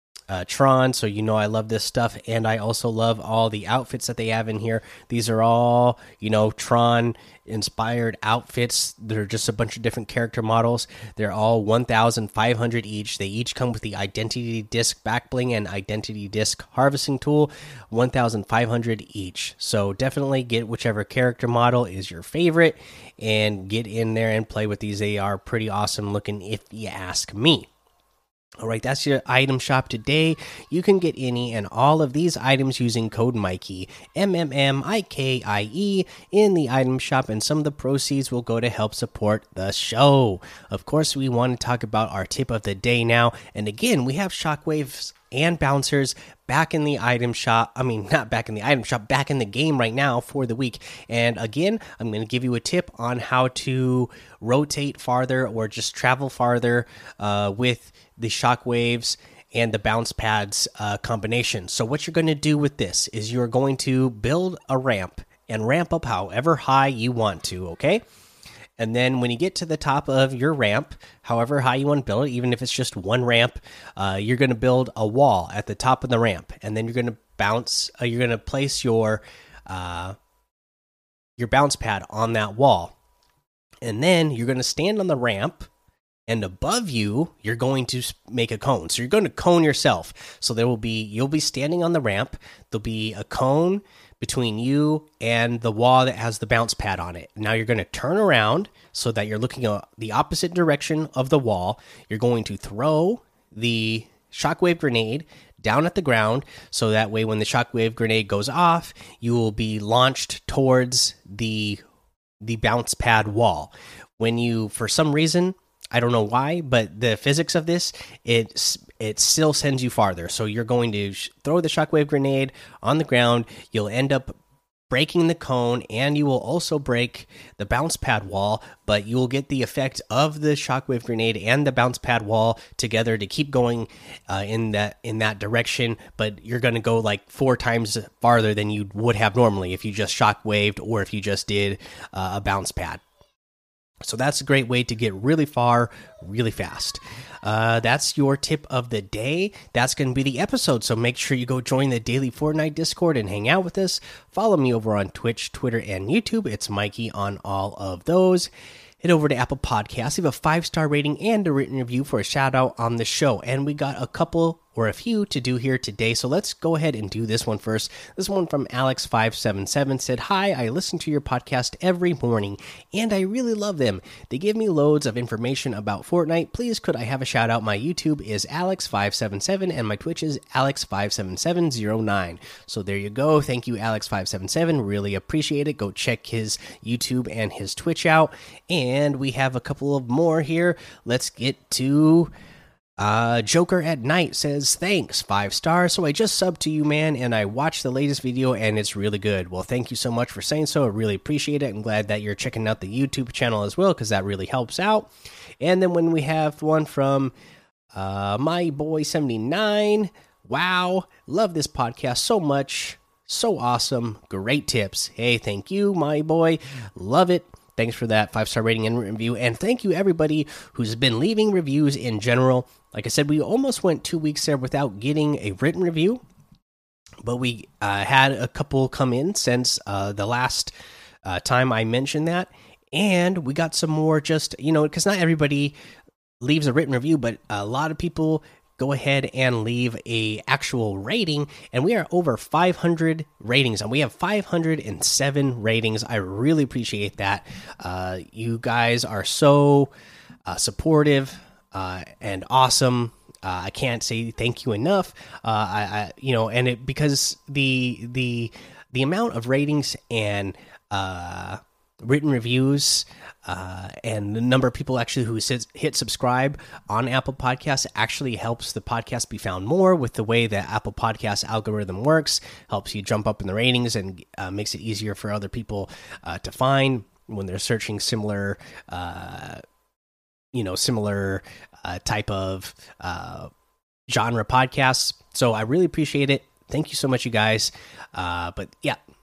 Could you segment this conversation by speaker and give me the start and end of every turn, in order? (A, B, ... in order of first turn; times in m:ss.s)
0:00.3-0:27.7 A
0:28.6-1:08.0 A
1:08.8-1:20.2 A
1:21.4-1:22.9 A
1:23.8-1:25.7 A
1:26.3-1:51.8 A
1:52.4-2:04.4 A
2:04.9-2:23.0 A
2:24.0-3:12.3 A
3:13.0-3:27.3 A
3:27.9-3:46.2 A
3:47.2-3:55.8 A
3:56.4-4:09.9 A
4:10.5-4:39.6 A
4:40.5-4:43.5 A
4:44.1-4:49.0 A